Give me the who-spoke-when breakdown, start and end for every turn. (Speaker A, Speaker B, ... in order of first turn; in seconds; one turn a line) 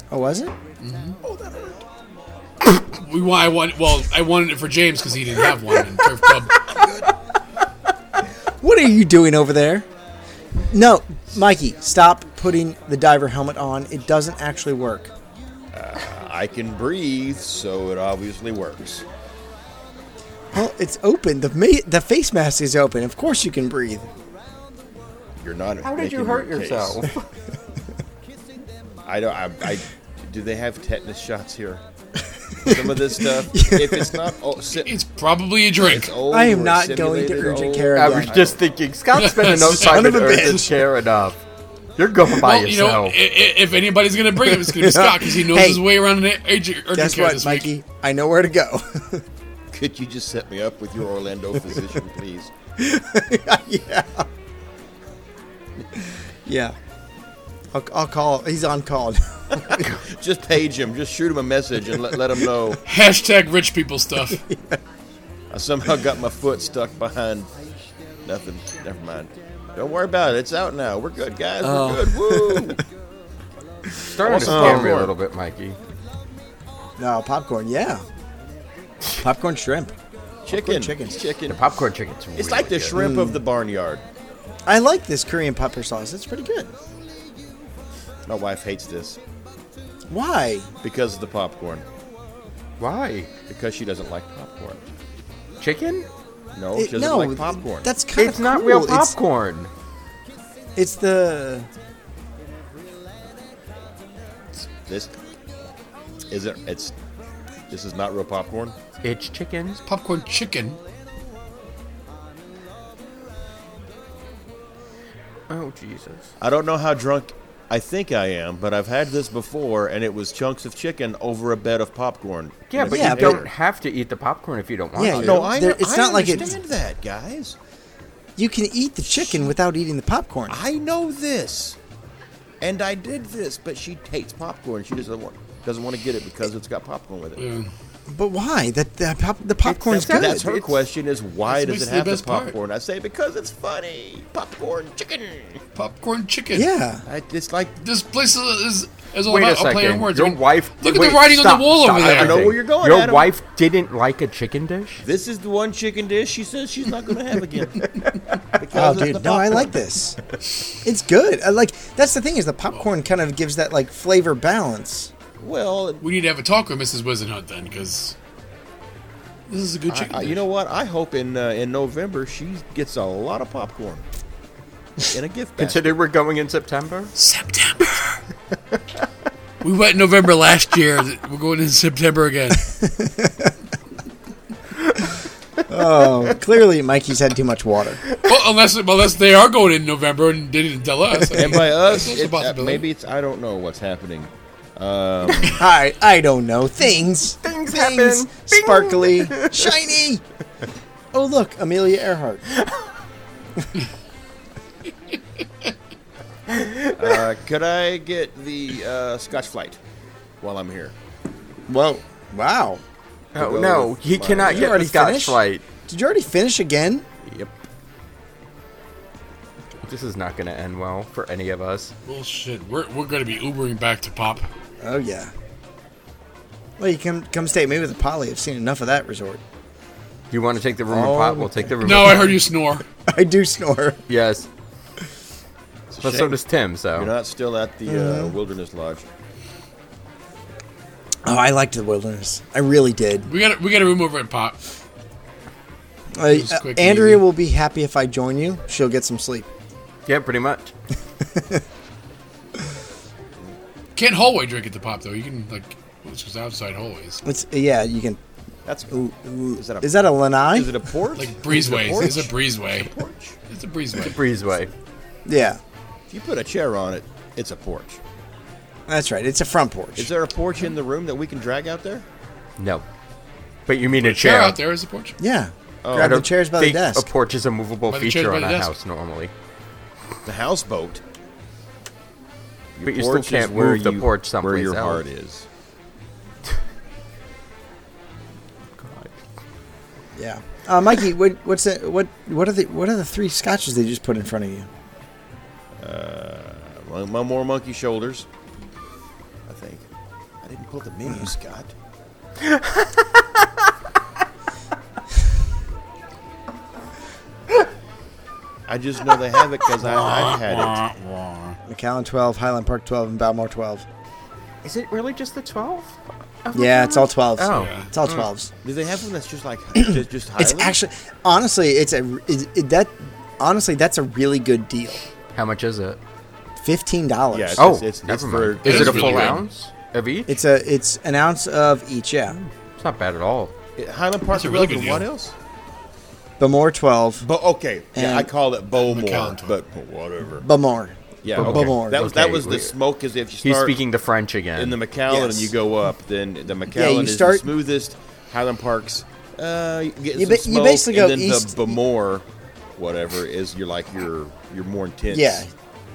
Speaker A: 0.1-0.5
Speaker B: 0.8-1.2
Speaker C: 1.2-1.8
Speaker B: 2.9-6.7
Speaker A: 8.6-9.9
Speaker A: 10.6-15.1
Speaker C: 15.7-19.1
Speaker A: 20.5-24.1
Speaker C: 25.4-27.0
Speaker D: 25.8-27.3
Speaker C: 29.1-31.8
Speaker C: 32.6-35.0
Speaker A: 32.6-34.3
Speaker B: 34.8-36.1
Speaker C: 35.8-38.6
Speaker A: 36.3-38.5
Speaker D: 37.9-41.4
Speaker B: 39.1-40.6
Speaker A: 39.6-40.8
Speaker D: 42.0-43.2
Speaker B: 42.3-47.7
Speaker A: 44.5-45.8
Speaker A: 46.9-49.2
Speaker C: 49.7-52.5
Speaker A: 52.8-54.3
Speaker A: 56.0-56.8
Speaker A: 57.7-59.9
Speaker C: 59.6-62.8
Speaker B: 62.9-64.4
Speaker A: 64.5-64.8
Speaker C: 65.5-67.5
Speaker C: 68.2-72.8
Speaker A: 71.6-72.8
Speaker D: 74.1-75.8
Speaker C: 74.2-75.1
Speaker A: 74.3-75.0
Speaker A: 77.0-78.0
Speaker A: 79.2-79.9
Speaker C: 80.5-81.6
Speaker A: 80.5-81.2
Speaker D: 81.5-83.0
Speaker C: 82.4-84.0
Speaker A: 82.9-83.4
Speaker A: 84.7-86.7
Speaker C: 88.3-89.2
Speaker A: 90.1-90.7
Speaker C: 90.8-91.8
Speaker D: 92.8-93.3
Speaker C: 93.5-94.8
Speaker D: 95.6-96.1
Speaker C: 96.5-97.9
Speaker A: 96.8-99.2
Speaker D: 98.2-99.7
Speaker A: 100.8-101.7
Speaker C: 104.9-105.1
Speaker C: 106.3-106.9
Speaker C: 107.7-108.8
Speaker D: 109.0-109.8
Speaker B: 109.9-110.8
Speaker D: 115.5-116.3
Speaker C: 116.4-123.5
Speaker D: 122.7-125.5
Speaker A: 122.9-123.4
Speaker A: 125.0-126.6
Speaker C: 125.1-127.6
Speaker A: 128.4-130.6
Speaker C: 130.5-131.8
Speaker C: 132.6-137.5
Speaker B: 137.4-137.7
Speaker A: 138.1-140.5
Speaker D: 139.6-140.8
Speaker C: 140.0-145.6
Speaker B: 141.5-142.6
Speaker B: 145.8-146.7
Speaker A: 146.5-147.1
Speaker C: 147.1-147.8
Speaker B: 147.8-152.6
Speaker D: 149.2-155.0
Speaker C: 152.0-153.3
Speaker C: 155.0-157.9
Speaker C: 158.6-159.8
Speaker A: 158.7-160.2
Speaker A: 160.8-165.1
Speaker C: 165.4-166.0
Speaker B: 166.0-168.2
Speaker B: 169.5-170.4
Speaker C: 169.9-174.0
Speaker C: 175.0-176.0
Speaker D: 175.6-177.1
Speaker B: 177.2-178.2
Speaker B: 179.6-182.7
Speaker A: 182.8-183.5
Speaker A: 185.7-188.0
Speaker B: 188.2-192.8
Speaker C: 191.3-195.7
Speaker A: 195.5-200.2
Speaker D: 197.4-199.8
Speaker A: 201.1-202.4
Speaker D: 202.5-202.9
Speaker D: 206.5-207.2
Speaker C: 207.0-209.8
Speaker C: 210.4-210.9
Speaker A: 211.7-212.8
Speaker D: 213.3-215.6
Speaker C: 213.4-214.8
Speaker A: 214.4-217.1
Speaker D: 219.8-221.9
Speaker B: 222.1-224.5
Speaker A: 224.8-225.3
Speaker A: 226.8-229.4
Speaker D: 230.3-232.3
Speaker A: 230.9-232.0
Speaker B: 231.8-232.8
Speaker A: 233.1-234.0
Speaker D: 234.1-234.5
Speaker C: 235.9-236.4
Speaker D: 236.0-237.1
Speaker C: 236.9-239.1
Speaker A: 237.9-238.3
Speaker A: 241.2-243.3
Speaker B: 243.3-244.6
Speaker A: 246.2-249.5
Speaker B: 246.3-247.2
Speaker D: 250.1-250.7
Speaker A: 251.3-251.6
Speaker B: 254.0-257.2
Speaker A: 257.2-258.2
Speaker C: 258.7-258.9
Speaker A: 258.9-260.9
Speaker C: 259.6-263.4
Speaker B: 261.2-262.9
Speaker B: 263.5-264.2
Speaker D: 264.0-264.7
Speaker A: 265.3-265.6
Speaker C: 266.1-268.0
Speaker A: 268.9-270.1
Speaker C: 270.0-272.1
Speaker D: 272.6-272.9
Speaker D: 273.7-274.6
Speaker B: 273.9-275.2
Speaker A: 275.2-277.1
Speaker C: 275.8-276.2
Speaker D: 275.9-279.3
Speaker B: 277.9-278.7
Speaker C: 280.3-281.0
Speaker C: 282.8-285.5
Speaker D: 282.8-285.0
Speaker D: 288.8-289.1
Speaker A: 290.1-294.7
Speaker C: 295.8-298.3
Speaker C: 299.5-299.9
Speaker C: 300.4-301.7
Speaker D: 302.4-303.2
Speaker C: 308.7-310.8
Speaker B: 309.8-311.6
Speaker A: 311.7-313.9
Speaker D: 314.6-318.2
Speaker A: 316.5-318.5
Speaker B: 317.5-317.9
Speaker C: 318.6-320.8
Speaker A: 319.8-325.0
Speaker D: 325.3-326.0
Speaker A: 326.6-327.7
Speaker C: 327.3-329.4
Speaker D: 327.6-330.4
Speaker B: 328.6-329.4
Speaker A: 330.3-332.4
Speaker D: 332.4-333.5
Speaker C: 333.8-335.3
Speaker B: 334.3-335.1
Speaker A: 336.4-337.3
Speaker C: 337.2-340.5
Speaker A: 337.9-338.3
Speaker B: 338.7-339.6
Speaker A: 340.4-342.1
Speaker C: 341.2-343.8
Speaker D: 341.4-342.8
Speaker D: 343.4-344.8
Speaker C: 344.6-352.2
Speaker A: 345.1-345.6
Speaker A: 346.7-347.5
Speaker A: 350.1-351.8
Speaker C: 352.8-355.4
Speaker A: 355.1-355.5